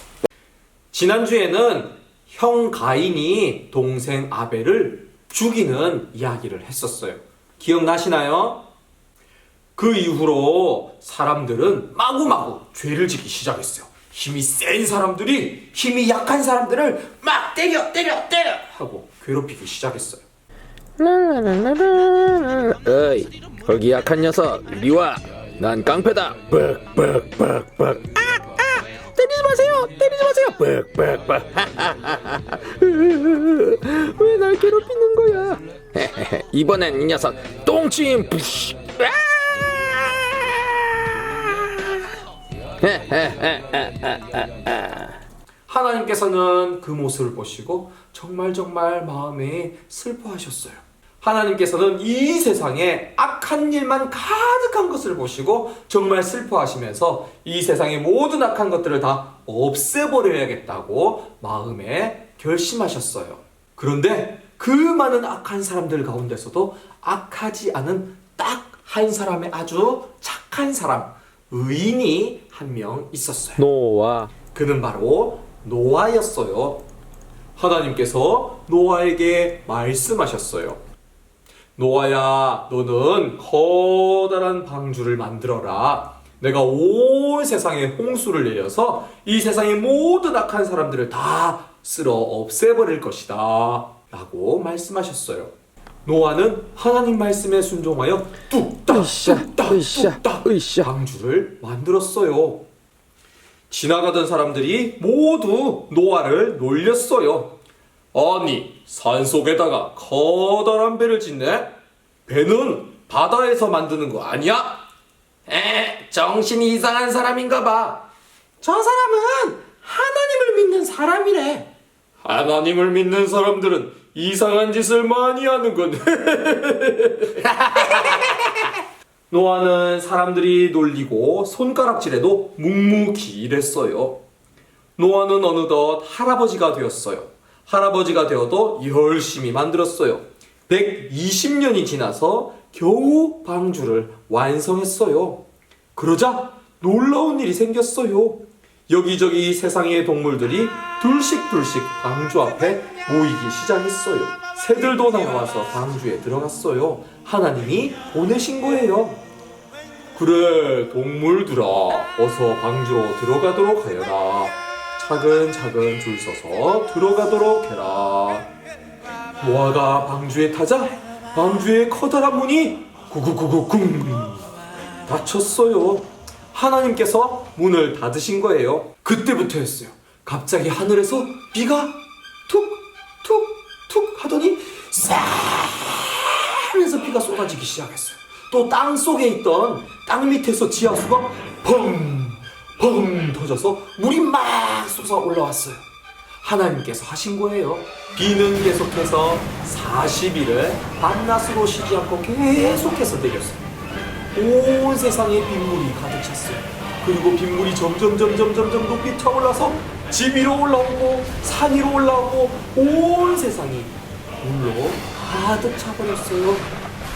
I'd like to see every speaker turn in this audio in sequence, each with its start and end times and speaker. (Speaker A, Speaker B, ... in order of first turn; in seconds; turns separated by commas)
Speaker A: 0.9-8.7, Speaker A: 9.8-20.2, Speaker B: 21.0-41.7, Speaker A: 29.2-31.1, Speaker A: 32.8-33.3, Speaker A: 34.0-35.5, Speaker B: 42.8-45.1, Speaker A: 45.7-73.6, Speaker B: 73.6-74.3, Speaker A: 74.5-76.8, Speaker A: 77.5-80.8, Speaker A: 81.8-95.5, Speaker A: 96.0-102.7, Speaker B: 98.9-100.9, Speaker A: 103.7-107.6, Speaker A: 108.1-111.7, Speaker A: 112.2-114.8, Speaker A: 115.5-118.0, Speaker A: 118.6-121.7, Speaker A: 122.2-128.7, Speaker A: 129.3-134.2, Speaker A: 135.0-145.4, Speaker A: 145.9-159.2, Speaker A: 160.1-168.5, Speaker A: 169.4-174.5, Speaker A: 175.1-195.8, Speaker A: 196.4-203.6, Speaker A: 204.3-216.7